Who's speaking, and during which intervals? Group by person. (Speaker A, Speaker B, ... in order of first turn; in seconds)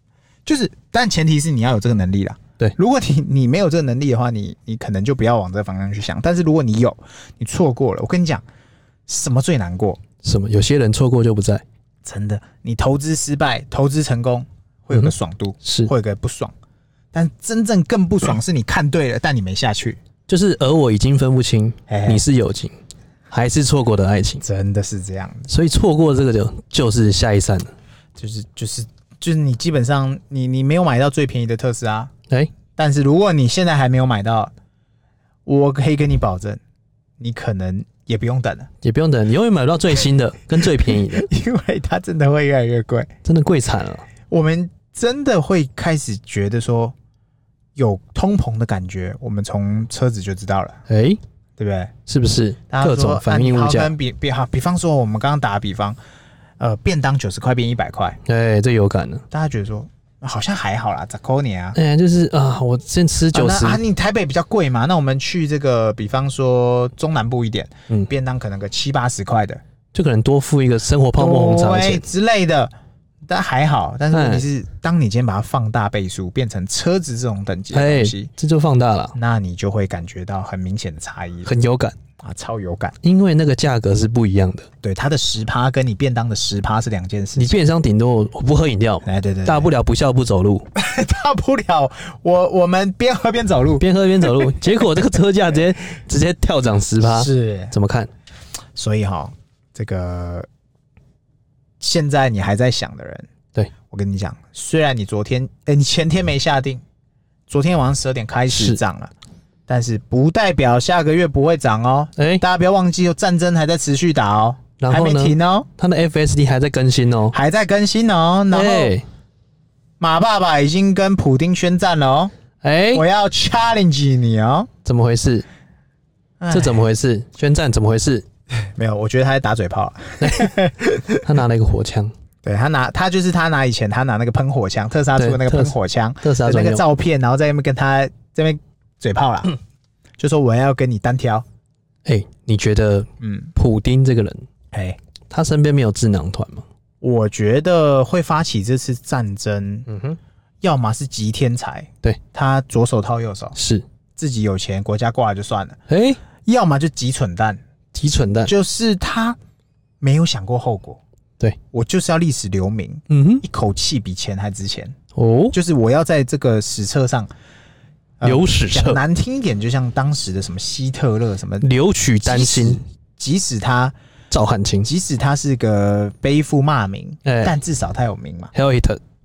Speaker A: 0.5-8.4, 9.1-10.0, 12.1-16.5, 17.1-20.0, 21.9-22.2, 24.4-25.5, 28.2-32.1, 32.8-34.5, 35.5-36.6, 37.2-38.7, 40.8-43.1, 44.3-47.0, 47.8-50.8, 51.6-51.9, 52.7-56.0, 56.6-58.2, 59.3-61.8, 63.3-69.6, 71.2-72.7, 73.3-78.3, 79.2-81.5, 82.2-83.0, 84.8-87.5, 89.0-89.7, 90.8-94.8, 97.0-97.7, 98.8-100.5, 101.8-103.3, 103.9-106.8, 107.5-109.1, 109.7-115.7, 117.3-118.9, 120.0-122.3, 122.9-124.7, 126.4-126.8, 128.8-131.3, 132.4-139.6, 140.2-141.4, 143.2-143.5, 144.7-145.0, 147.0-149.9, 150.6-153.6, 154.2-155.8, 156.4-157.6, 158.4-159.4, 160.0-161.0, 161.7-165.0, 165.5-167.3, 168.2-171.7, 172.2-173.9, 174.8-178.5
Speaker B: 10.2-11.6, 15.7-15.9, 20.3-22.8, 23.3-24.4, 25.5-27.7, 38.8-41.3, 43.2-44.1, 50.9-51.2, 52.1-53.9, 58.2-59.2, 61.8-63.8, 69.9-72.0, 74.1-74.5, 77.7-79.2, 81.5-82.0, 83.0-84.7, 87.4-90.7, 93.8-98.1, 108.5-108.8, 112.2-112.4, 114.8-117.3, 118.5-119.0, 122.6-123.0, 124.8-125.5, 126.5-128.2, 130.2-130.5, 131.2-132.1, 135.2-136.8, 142.1-144.5, 145.3-146.7, 149.9-150.2, 153.6-153.8, 155.9-156.2, 157.9-158.5, 163.1-163.4, 165.2-165.6, 168.2-169.0, 171.6-172.8, 174.3-174.9, 177.2-177.5, 178.5-179.0